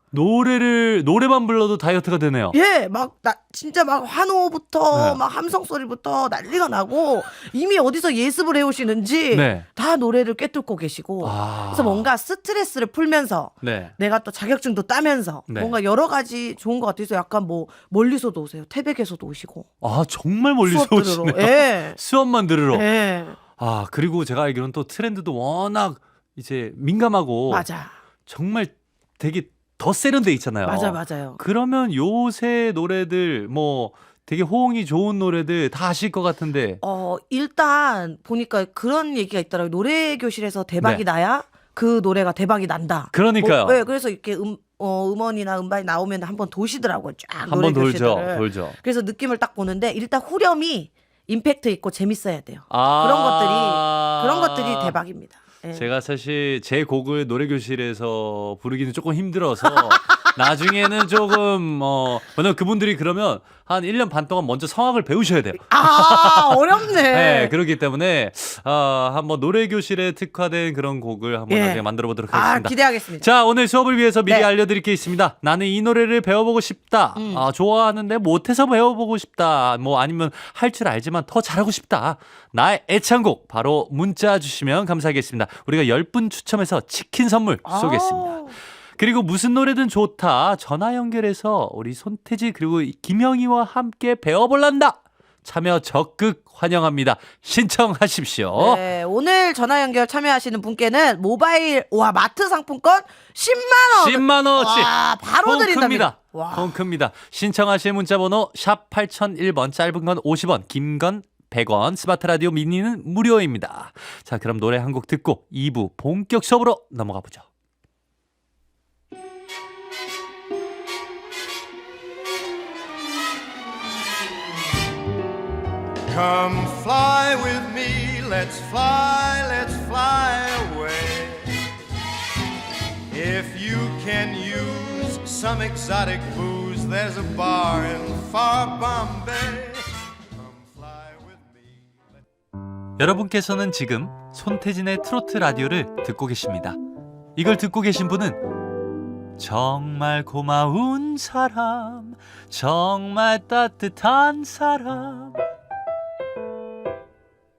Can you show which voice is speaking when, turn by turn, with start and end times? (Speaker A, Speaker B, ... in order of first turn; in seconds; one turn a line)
Speaker A: 0.1-2.6
Speaker B: 2.5-19.7
Speaker A: 4.9-5.2
Speaker A: 9.3-9.7
Speaker A: 11.2-12.1
Speaker A: 13.6-13.9
Speaker A: 15.5-15.8
Speaker A: 19.8-22.9
Speaker B: 20.7-22.0
Speaker B: 22.7-23.4
Speaker A: 23.6-27.7
Speaker B: 27.5-27.9
Speaker A: 28.3-36.8
Speaker B: 30.7-31.4
Speaker B: 36.8-55.8
Speaker A: 43.1-43.8
Speaker A: 47.5-48.8
Speaker A: 52.7-55.0
Speaker A: 55.7-88.4
Speaker B: 65.7-67.5
Speaker B: 71.5-73.3
Speaker B: 77.2-77.4
Speaker B: 87.7-88.5
Speaker A: 89.0-98.8
Speaker B: 98.6-106.7
Speaker A: 104.0-104.9
Speaker A: 105.4-117.4
Speaker C: 126.1-131.6
Speaker C: 133.1-142.1
Speaker A: 143.0-146.8
Speaker A: 147.4-148.4
Speaker A: 149.4-155.4